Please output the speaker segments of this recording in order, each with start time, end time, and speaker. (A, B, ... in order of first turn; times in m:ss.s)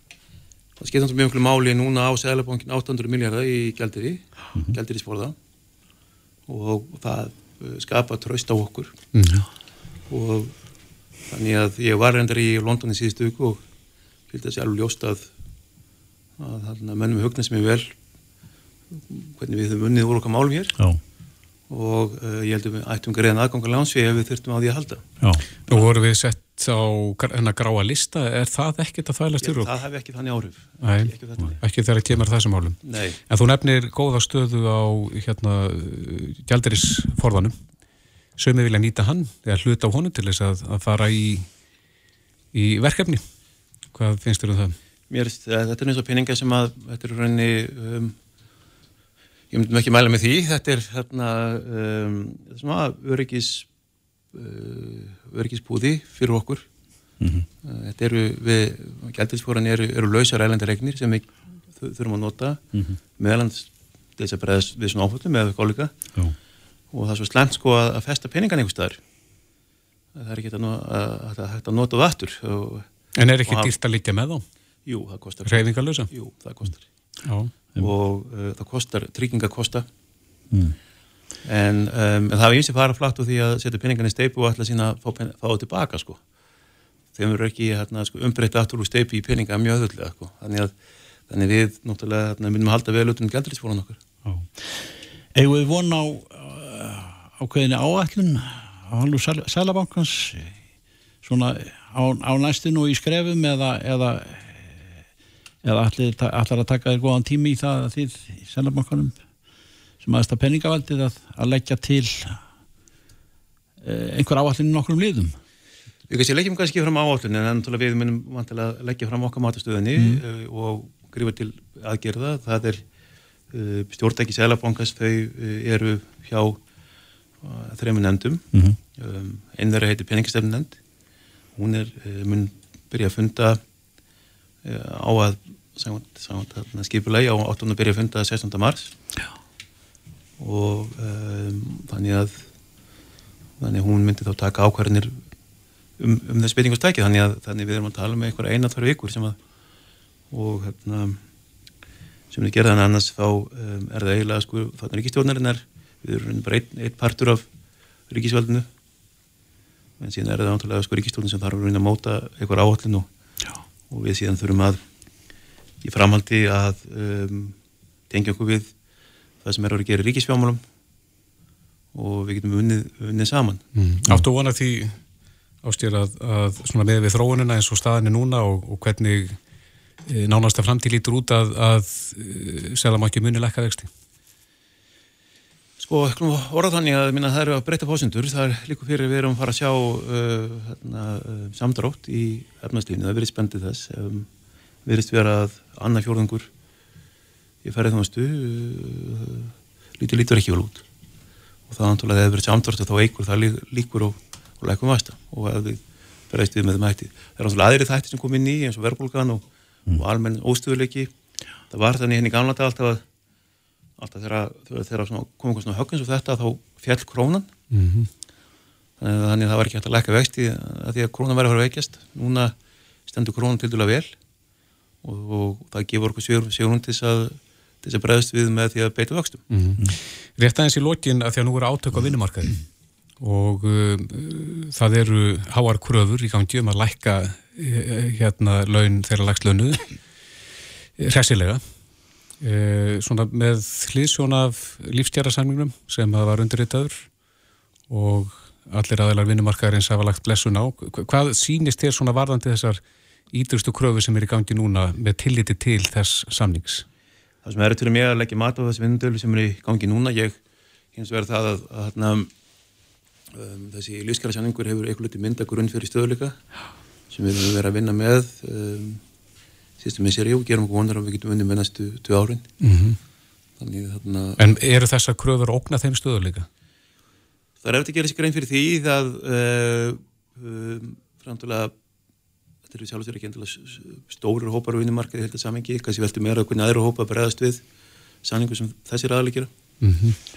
0:00.8-0:05.4 A
0:06.5-0:09.0 A
0:09.1-0:09.5 B
0:10.1-0:10.6 A
0:11.3-0:13.6 A
0:14.3-0:15.3 A
0:16.4-0:17.9 A
0:18.9-0:20.8 A
0:21.7-0:25.1 A
0:25.7-0:29.7 B
0:29.4-0:31.6 A
0:30.8-0:32.8 B
0:32.8-0:33.2 A
0:33.3-0:37.6 B
0:38.4-0:41.5 B
0:42.5-0:43.2 B
0:43.9-0:44.8 B
0:45.1-0:48.2 A
0:49.5-0:53.7 A
0:54.3-0:56.7 A
0:57.2-0:57.5 C
0:57.6-1:02.6 A
1:02.7-1:03.0 C
1:03.2-1:05.9 A
1:06.9-1:09.0 A
1:10.2-1:12.9 A
1:13.2-1:14.4 B
1:13.5-1:13.7 A
1:14.9-1:16.8 A
1:15.5-1:16.1 B
1:17.2-1:17.5 B
1:17.8-1:19.9 A
1:20.5-1:20.8 C
1:21.4-1:26.2 A
1:27.2-1:30.7 A
1:31.3-1:34.0 A
1:34.2-1:40.5 C
1:41.2-1:44.8 C
1:45.6-1:49.2 C
1:50.0-1:52.4 C
1:53.8-1:55.4 C
1:56.1-2:02.8 A
2:00.0-2:00.2 C
2:03.5-2:06.6 A
2:07.4-2:10.8 A
2:11.6-2:13.6 A
2:14.6-2:19.0 A
2:20.4-2:22.5 A
2:23.6-2:25.2 A
2:26.0-2:29.4 A
2:30.3-2:31.2 A
2:32.3-2:37.5 A
2:38.1-2:38.7 A
2:40.0-2:43.1 A
2:43.9-2:44.8 A
2:45.8-2:47.6 A
2:48.1-2:48.7 A
2:49.4-2:50.6 A
2:51.9-2:53.6 A
2:53.8-2:55.0 B
2:55.6-2:59.4 B
3:00.1-3:03.9 B
3:05.8-3:14.3 A
3:14.8-3:16.5 A
3:17.6-3:20.8 A
3:21.7-3:31.1 A
3:31.7-3:33.0 A
3:34.0-3:37.5 A
3:37.7-3:38.1 B
3:39.0-3:42.5 A
3:43.1-3:44.2 A
3:45.0-3:49.4 A
3:49.5-3:52.6 B
3:53.2-3:59.9 B
4:01.0-4:01.6 B
4:02.4-4:07.1 B
4:07.9-4:16.8 B
4:17.4-4:20.4 A
4:21.0-4:22.3 A
4:23.3-4:26.4 A
4:27.1-4:29.0 A
4:29.8-4:32.5 A
4:32.6-4:33.0 B
4:33.6-4:34.5 A
4:34.4-4:36.5 B
4:37.6-4:41.7 A
4:42.7-4:47.6 A
4:48.2-4:49.5 A
4:49.8-4:50.2 B